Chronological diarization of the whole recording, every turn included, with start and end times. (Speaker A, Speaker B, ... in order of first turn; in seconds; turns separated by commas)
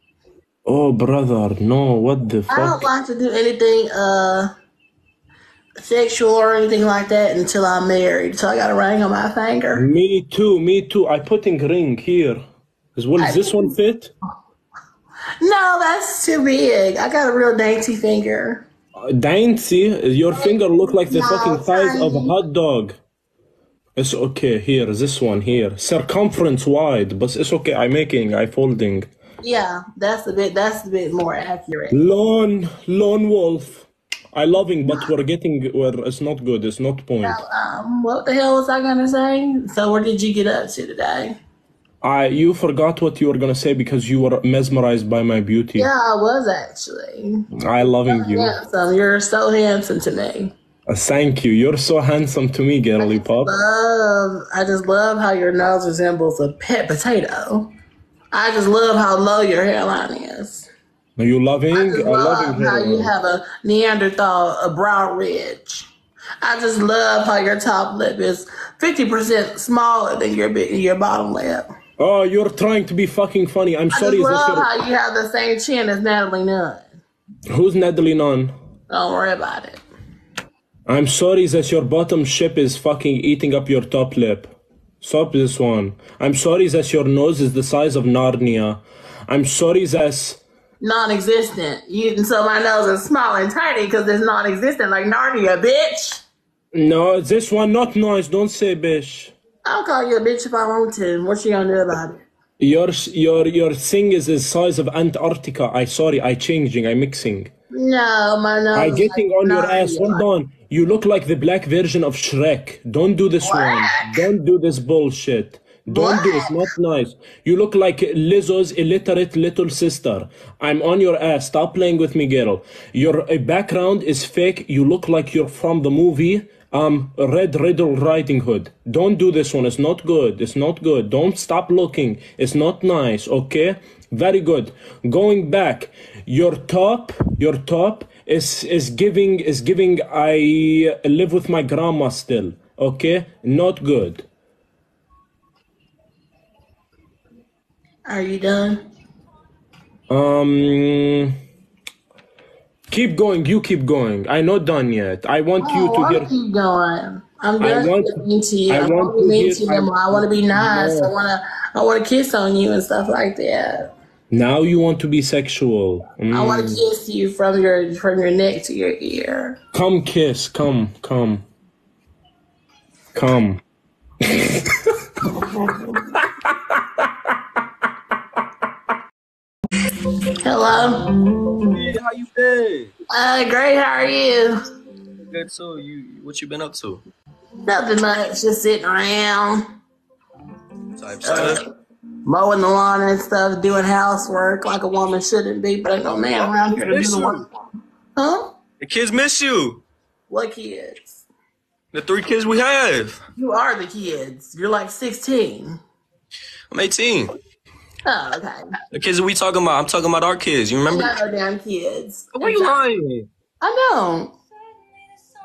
Speaker A: 0.7-2.9, Speaker B: 2.5-4.5, Speaker B: 5.8-9.9, Speaker A: 9.8-12.4, Speaker A: 13.0-14.1, Speaker B: 13.2-13.8, Speaker B: 15.4-18.6, Speaker A: 19.0-23.0, Speaker B: 20.4-22.3, Speaker A: 24.0-29.1, Speaker B: 29.4-32.0, Speaker A: 31.9-37.4, Speaker B: 34.9-35.1, Speaker B: 37.2-41.4, Speaker A: 42.0-45.9, Speaker B: 45.8-47.5, Speaker A: 47.6-48.5, Speaker B: 48.1-50.5, Speaker A: 50.9-53.5, Speaker B: 53.0-57.7, Speaker B: 58.3-60.7, Speaker A: 61.2-63.1, Speaker B: 61.7-65.9, Speaker B: 66.4-71.7, Speaker A: 72.0-74.7, Speaker B: 73.9-77.0, Speaker A: 77.5-78.5, Speaker B: 78.9-79.8, Speaker A: 80.9-90.4, Speaker B: 90.8-96.2, Speaker A: 96.7-99.3, Speaker B: 99.7-102.2, Speaker A: 102.6-107.5, Speaker B: 107.7-110.2, Speaker A: 108.7-144.2, Speaker B: 113.4-114.2, Speaker B: 115.9-116.6, Speaker B: 148.1-148.8, Speaker A: 150.1-151.4, Speaker A: 152.9-156.3, Speaker B: 155.6-163.9, Speaker A: 157.6-161.1, Speaker A: 164.3-166.8, Speaker B: 166.3-169.6, Speaker A: 169.7-171.4, Speaker A: 173.2-173.6, Speaker A: 174.2-174.8, Speaker B: 175.4-175.9, Speaker B: 180.4-181.1, Speaker C: 181.7-182.9, Speaker B: 183.1-184.6, Speaker C: 185.3-187.0, Speaker B: 187.7-189.7, Speaker C: 191.0-191.6, Speaker B: 191.2-191.6, Speaker B: 192.3-197.5, Speaker C: 196.7-197.5, Speaker B: 198.2-198.5, Speaker C: 198.8-199.8, Speaker B: 200.3-201.2, Speaker C: 201.9-203.2, Speaker B: 203.4-205.8, Speaker C: 206.7-207.3, Speaker B: 208.1-208.6, Speaker C: 208.9-211.2, Speaker B: 210.9-212.8, Speaker C: 212.4-213.3, Speaker B: 213.6-214.3